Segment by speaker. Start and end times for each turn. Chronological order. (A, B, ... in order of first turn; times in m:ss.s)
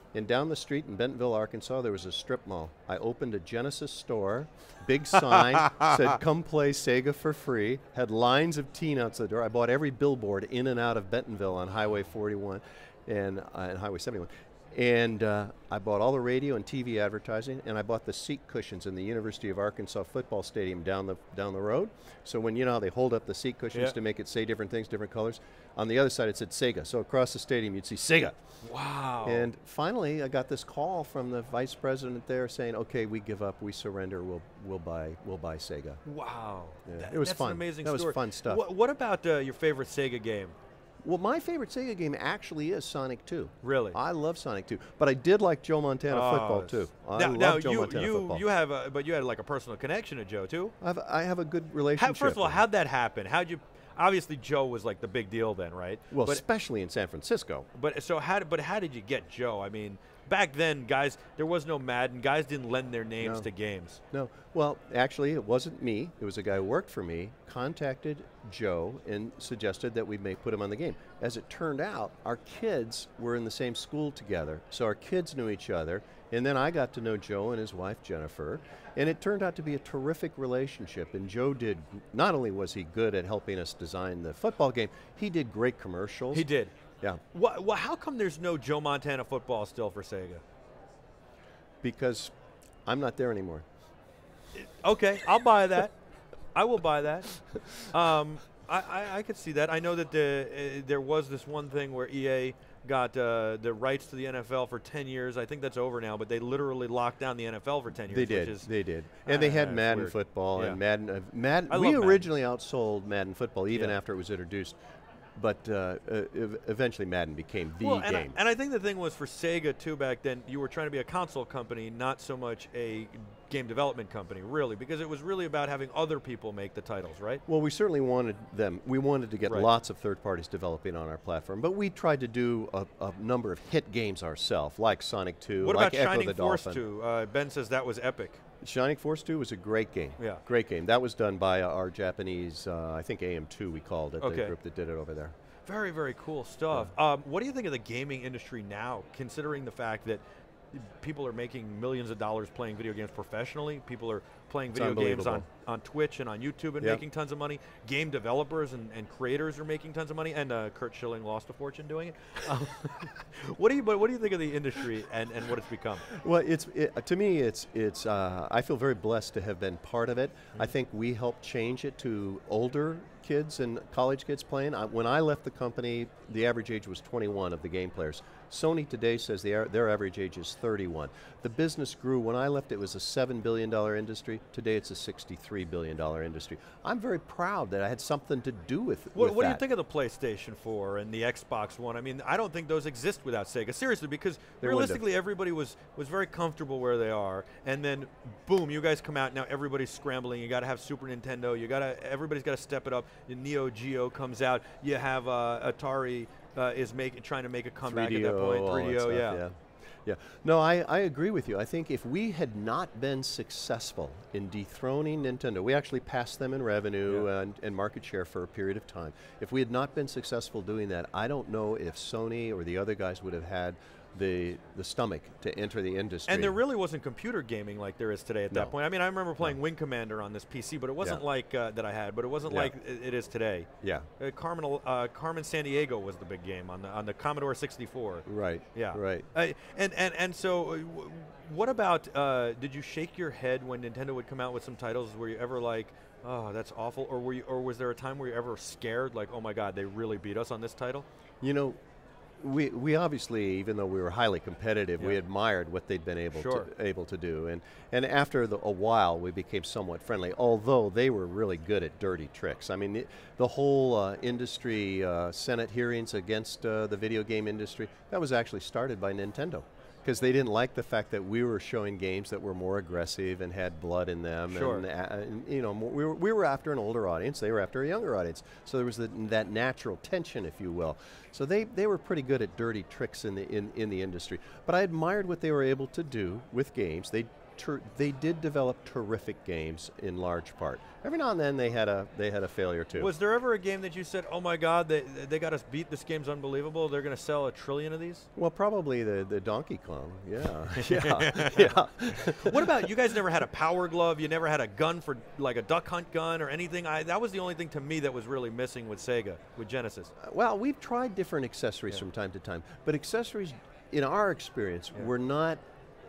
0:00.1-0:28.4 A
0:05.4-0:06.0 B
0:28.6-0:29.5 B
0:29.2-0:36.0 A
0:36.0-0:40.6 B
0:36.9-0:38.6 A
0:41.0-0:48.4 A
0:43.6-0:44.0 B
0:46.1-0:50.7 B
0:50.8-0:52.6 A
0:52.0-0:56.4 B
0:56.1-0:57.7 A
0:57.7-1:04.0 B
1:03.2-1:03.5 A
1:04.1-1:26.5 A
1:26.3-1:26.7 B
1:27.3-1:30.4 B
1:31.8-1:32.3 A
1:32.8-1:33.6 A
1:34.6-1:36.0 B
1:36.6-1:48.7 B
1:48.1-1:54.8 A
1:49.2-1:50.8 B
1:51.7-1:52.2 B
1:55.4-1:58.4 A
1:57.8-2:07.4 B
2:07.5-2:16.8 A
2:15.6-2:18.4 B
2:18.6-2:25.4 A
2:24.2-2:24.5 B
2:25.6-2:30.2 B
2:30.7-2:46.1 B
2:34.7-2:35.5 A
2:46.1-3:09.6 A
3:09.2-3:29.4 B
3:14.6-3:15.0 A
3:27.9-3:46.6 A
3:46.3-4:11.1 B
3:52.5-3:52.7 A
3:53.8-3:54.1 A
3:58.3-3:59.3 A
4:11.4-4:11.8 A
4:12.4-4:53.1 A
4:16.4-4:16.7 B
4:34.5-4:34.8 B
4:53.0-4:58.3 B
4:58.4-5:02.9 A
5:00.8-5:10.1 B
5:10.2-5:15.6 A